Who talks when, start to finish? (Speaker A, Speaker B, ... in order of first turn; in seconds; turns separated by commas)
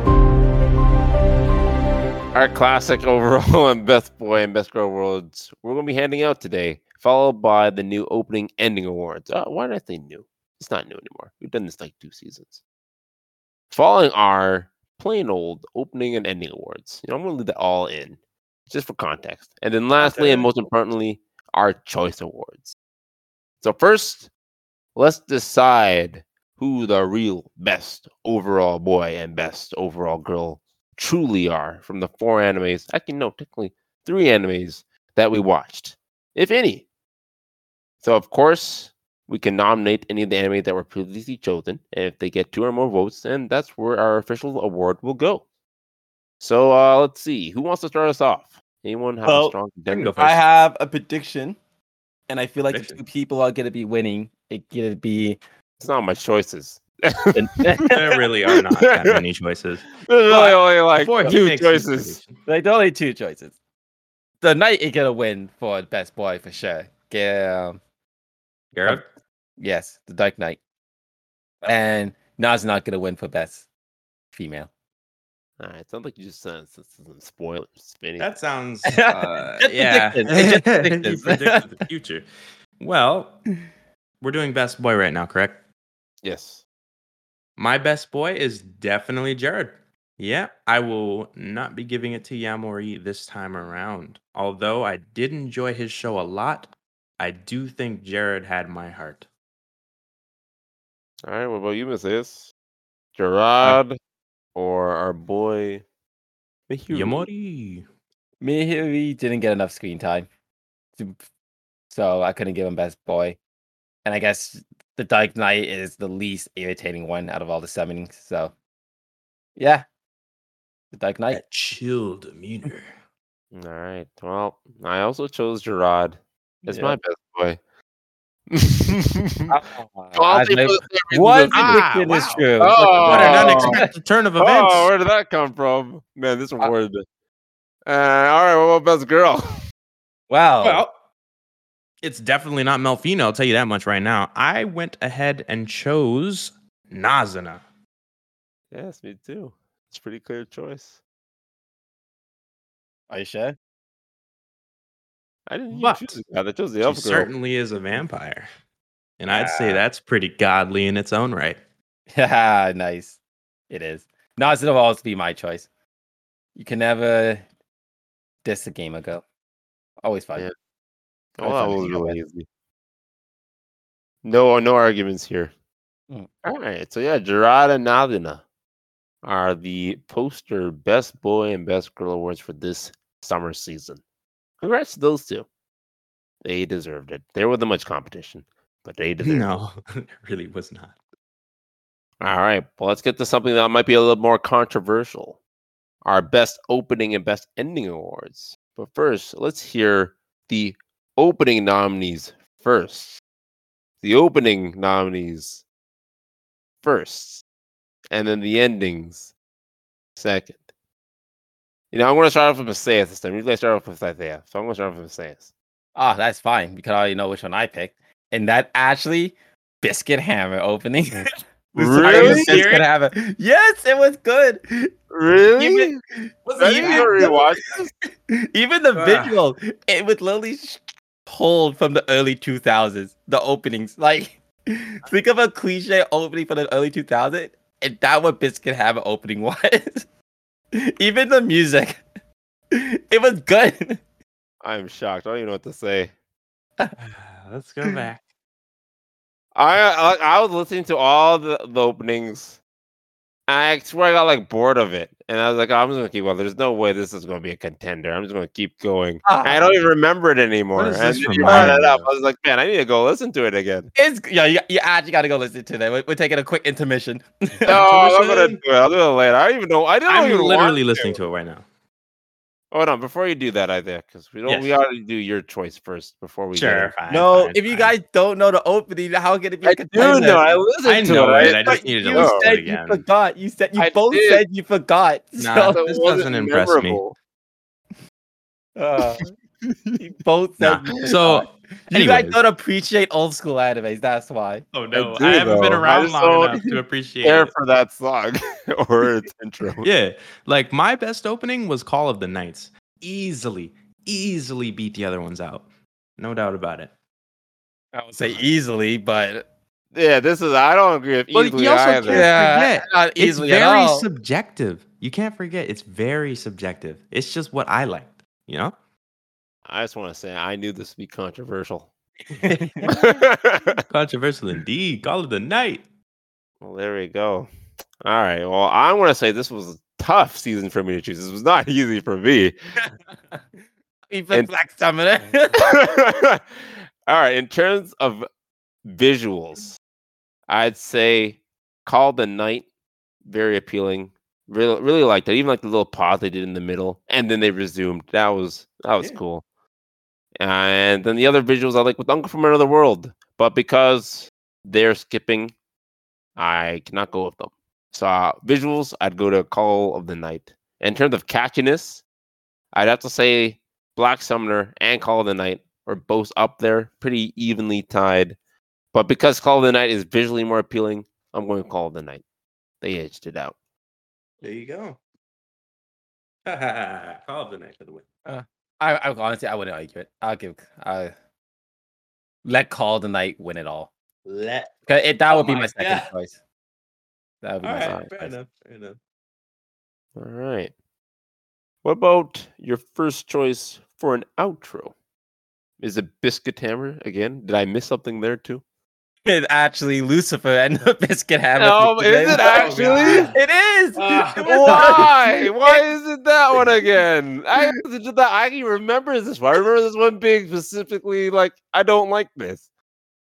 Speaker A: 2.3-12.6, Speaker A: 13.7-22.8, Speaker B: 20.0-20.5, Speaker A: 23.6-24.3, Speaker A: 24.9-36.9, Speaker A: 38.0-45.4, Speaker A: 46.4-50.4, Speaker C: 49.2-49.6, Speaker B: 49.9-50.2, Speaker C: 50.2-51.6, Speaker C: 52.3-55.4, Speaker B: 52.7-53.0, Speaker A: 55.8-57.8, Speaker C: 57.4-58.0, Speaker B: 57.9-62.4, Speaker A: 58.5-59.2, Speaker A: 60.0-62.2, Speaker C: 62.5-63.5, Speaker C: 64.4-67.8, Speaker B: 68.7-69.1, Speaker C: 69.6-70.6, Speaker C: 71.6-73.7, Speaker C: 74.3-74.7, Speaker A: 75.6-78.3, Speaker B: 78.2-82.2, Speaker C: 78.8-81.6, Speaker B: 82.8-83.4, Speaker B: 84.2-85.6, Speaker A: 86.2-86.6, Speaker B: 87.6-99.3, Speaker A: 101.2-102.5, Speaker A: 103.2-104.0, Speaker A: 104.5-105.8, Speaker A: 106.7-107.3, Speaker B: 106.9-107.9, Speaker C: 108.4-110.3, Speaker C: 111.9-113.4, Speaker C: 114.0-118.5, Speaker C: 119.6-119.8, Speaker C: 120.9-121.4, Speaker B: 121.3-122.9, Speaker A: 123.5-127.6, Speaker C: 126.7-127.0, Speaker A: 128.5-129.5, Speaker C: 129.5-133.9, Speaker A: 130.2-131.9, Speaker B: 131.5-134.9, Speaker A: 132.6-133.8, Speaker A: 134.4-137.0, Speaker A: 137.9-139.6, Speaker C: 140.3-140.8, Speaker B: 140.6-140.9, Speaker B: 142.0-147.7, Speaker A: 148.7-151.0, Speaker C: 153.1-153.6, Speaker A: 155.5-157.3, Speaker B: 155.7-156.2, Speaker B: 156.8-158.5, Speaker B: 159.2-161.6, Speaker C: 159.3-159.8, Speaker C: 162.1-163.2, Speaker C: 163.7-165.7, Speaker C: 166.6-167.4, Speaker C: 168.4-169.2, Speaker C: 170.0-170.5, Speaker A: 171.4-172.5, Speaker C: 171.4-172.2, Speaker A: 174.2-175.5, Speaker A: 176.4-178.4, Speaker A: 179.2-184.0, Speaker A: 184.6-185.5, Speaker A: 186.4-189.5, Speaker B: 189.2-191.0, Speaker A: 192.2-195.4, Speaker A: 196.0-203.2, Speaker A: 204.0-205.6, Speaker A: 206.8-207.4, Speaker A: 208.1-209.3, Speaker A: 210.2-210.6, Speaker A: 211.9-215.5, Speaker C: 216.0-221.2, Speaker C: 221.8-224.9, Speaker A: 221.8-222.7, Speaker B: 221.8-222.9, Speaker A: 225.1-226.0, Speaker C: 225.6-227.6, Speaker B: 226.5-227.2, Speaker A: 226.6-227.9, Speaker C: 228.5-240.0, Speaker B: 228.9-229.4, Speaker C: 240.7-242.0, Speaker C: 242.7-244.0, Speaker A: 244.6-246.1, Speaker B: 247.0-248.2, Speaker A: 249.6-252.6, Speaker A: 253.5-263.9, Speaker C: 259.2-259.8, Speaker B: 260.8-262.1, Speaker C: 261.4-261.8, Speaker C: 264.0-267.7, Speaker B: 267.7-268.6, Speaker A: 267.7-271.2, Speaker B: 270.1-271.6, Speaker A: 272.7-276.9, Speaker B: 274.4-274.7, Speaker B: 276.5-277.9, Speaker C: 277.1-280.6, Speaker A: 279.6-282.5, Speaker B: 280.8-283.0, Speaker C: 281.4-285.8, Speaker A: 283.8-284.4, Speaker B: 285.4-287.0, Speaker A: 285.7-287.1, Speaker C: 288.8-289.2, Speaker C: 290.0-294.6, Speaker B: 290.6-292.4, Speaker B: 294.7-297.5, Speaker A: 294.9-299.9, Speaker B: 299.8-306.9, Speaker C: 307.9-309.5, Speaker A: 309.9-312.3, Speaker B: 311.3-318.8, Speaker C: 312.1-314.1, Speaker A: 319.7-321.9, Speaker C: 322.4-322.9, Speaker A: 322.9-323.8, Speaker B: 323.9-325.9, Speaker A: 326.6-327.5, Speaker A: 328.0-332.5, Speaker C: 334.1-335.6, Speaker A: 335.5-338.2, Speaker A: 338.9-339.8, Speaker A: 340.5-342.7, Speaker A: 343.2-349.4, Speaker A: 350.4-355.5, Speaker A: 356.4-362.0, Speaker A: 362.7-368.4, Speaker A: 368.9-372.2, Speaker A: 372.8-373.6, Speaker B: 374.4-375.0, Speaker B: 376.5-378.0, Speaker C: 378.3-381.1, Speaker C: 382.4-383.9, Speaker B: 384.2-384.7, Speaker C: 384.9-386.4, Speaker B: 385.3-386.1, Speaker C: 387.4-388.4, Speaker B: 387.6-389.0, Speaker A: 390.2-390.7, Speaker A: 391.8-394.9, Speaker A: 395.8-398.6, Speaker C: 399.3-405.8, Speaker A: 401.6-403.3, Speaker B: 402.3-403.4, Speaker B: 403.9-405.1, Speaker A: 404.4-412.7